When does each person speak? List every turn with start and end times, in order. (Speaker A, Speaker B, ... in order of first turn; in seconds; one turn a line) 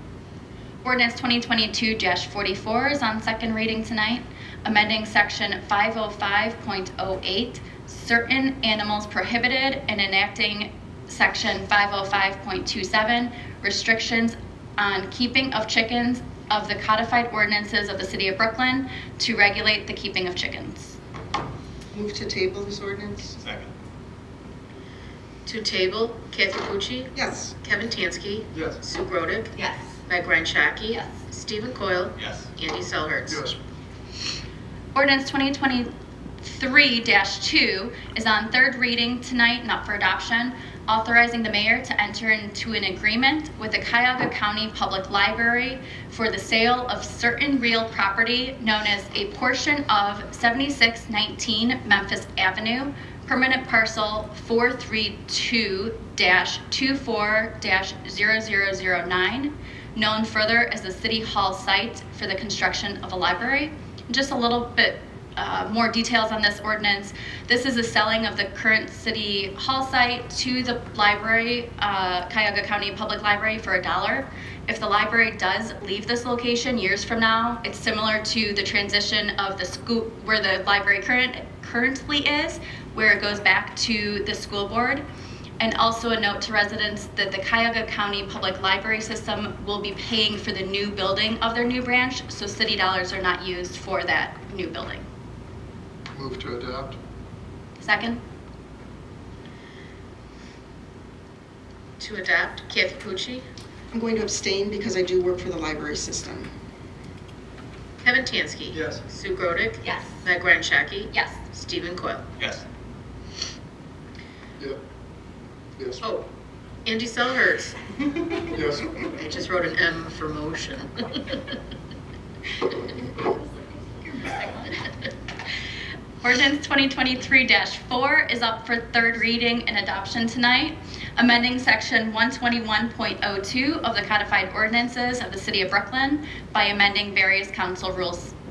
Speaker A: 0.8-21.0
Speaker B: 21.9-23.4
Speaker C: 25.4-29.5
Speaker B: 27.1-27.6
Speaker C: 30.1-33.4
Speaker D: 33.3-33.6
Speaker A: 34.9-35.9
Speaker A: 36.4-85.0
Speaker A: 85.6-95.0
Speaker D: 96.1-97.0
Speaker A: 97.8-98.2
Speaker C: 102.0-103.4
Speaker B: 103.9-106.5
Speaker C: 108.0-112.3
Speaker A: 111.1-111.4
Speaker D: 115.8-116.0
Speaker C: 116.0-116.3
Speaker C: 116.8-117.8
Speaker D: 118.5-119.0
Speaker C: 119.1-121.2
Speaker A: 124.3-124.6
Speaker A: 126.2-138.3